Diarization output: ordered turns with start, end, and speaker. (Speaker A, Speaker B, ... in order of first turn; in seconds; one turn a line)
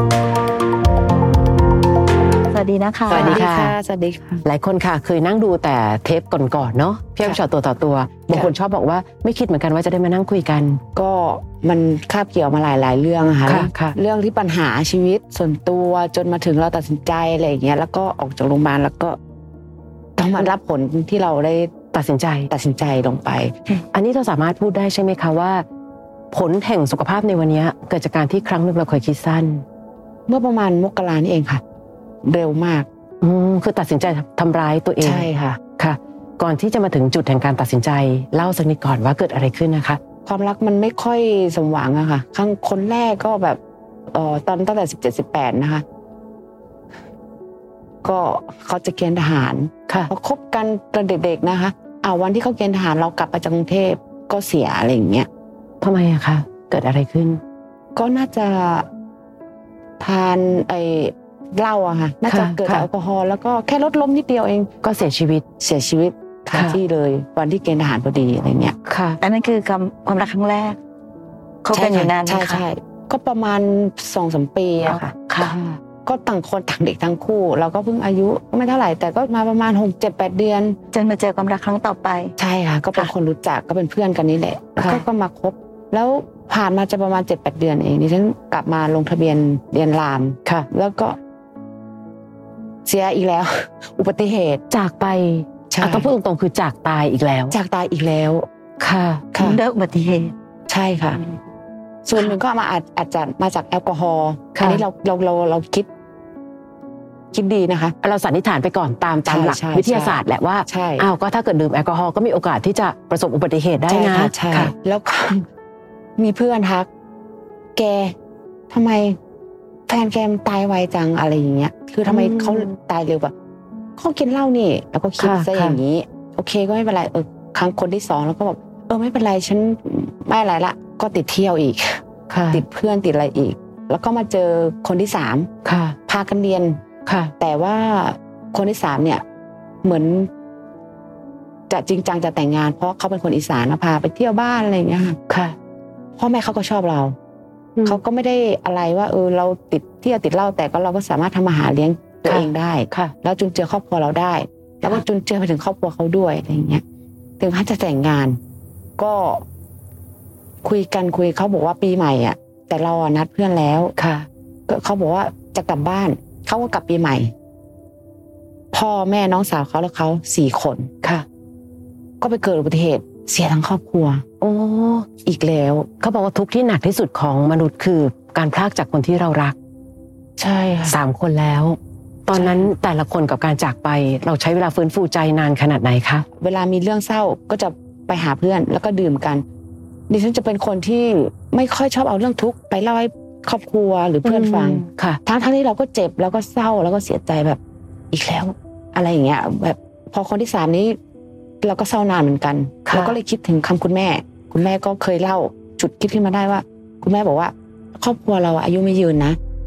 Speaker A: 2.5-3.4
Speaker B: 3.1-4.5
Speaker C: 3.1-3.8
Speaker C: 4.5-10.8
Speaker B: 10.9-19.2
Speaker C: 13.5-14.0
Speaker B: 20.2-21.7
Speaker C: 21.9-22.5
Speaker B: 22.5-23.6
Speaker C: 23.9-25.6
Speaker C: 26.3-29.6
Speaker B: 30.3-31.6
Speaker B: 32.2-32.9
Speaker C: 33.2-40.0
Speaker B: 35.0-35.6
Speaker B: 40.2-43.6
Speaker B: 44.1-45.8
Speaker B: 48.0-55.3
Speaker C: 55.8-57.4
Speaker B: 58.0-58.9
Speaker B: 60.0-64.7
Speaker C: 62.3-62.9
Speaker C: 64.8-65.5
Speaker B: 65.6-68.8
Speaker C: 66.5-66.8
Speaker C: 68.9-69.2
Speaker A: 69.2-70.8
Speaker A: 71.6-72.6
Speaker B: 71.7-80.8
Speaker A: 74.8-75.6
Speaker A: 80.9-82.3
Speaker B: 82.4-91.2
Speaker B: 92.9-94.6
Speaker C: 94.7-97.6
Speaker B: 95.7-96.1
Speaker B: 97.5-98.5
Speaker C: 98.8-99.2
Speaker B: 99.3-99.6
Speaker A: 99.4-100.3
Speaker B: 100.7-101.2
Speaker B: 102.0-105.9
Speaker C: 104.5-104.8
Speaker B: 107.3-108.0
Speaker C: 108.0-114.7
Speaker B: 109.3-111.1
Speaker B: 113.9-115.5
Speaker B: 116.2-116.9
Speaker B: 117.8-118.2
Speaker B: 118.7-119.2
Speaker B: 119.9-123.3
Speaker C: 122.1-122.7
Speaker B: 124.0-135.5
Speaker C: 125.2-125.8
Speaker C: 132.3-132.7
Speaker C: 135.7-136.0
Speaker B: 136.1-136.8
Speaker C: 137.1-137.3
Speaker B: 137.4-139.2
Speaker B: 139.8-140.3
Speaker B: 141.7-145.2
Speaker C: 145.3-145.6
Speaker B: 146.2-147.2
Speaker B: 147.8-156.8
Speaker C: 152.3-153.1
Speaker B: 157.4-158.4
Speaker B: 159.0-159.4
Speaker B: 160.6-163.9
Speaker C: 164.0-164.3
Speaker B: 164.7-167.3
Speaker B: 168.7-170.9
Speaker B: 172.2-174.2
Speaker C: 174.4-175.1
Speaker B: 175.2-175.9
Speaker C: 176.0-179.6
Speaker B: 180.4-181.0
Speaker C: 180.8-186.3
Speaker B: 182.3-182.7
Speaker B: 186.4-189.4
Speaker B: 190.1-197.6
Speaker C: 194.2-195.2
Speaker B: 198.1-201.0
Speaker B: 201.6-209.4
Speaker C: 202.9-203.2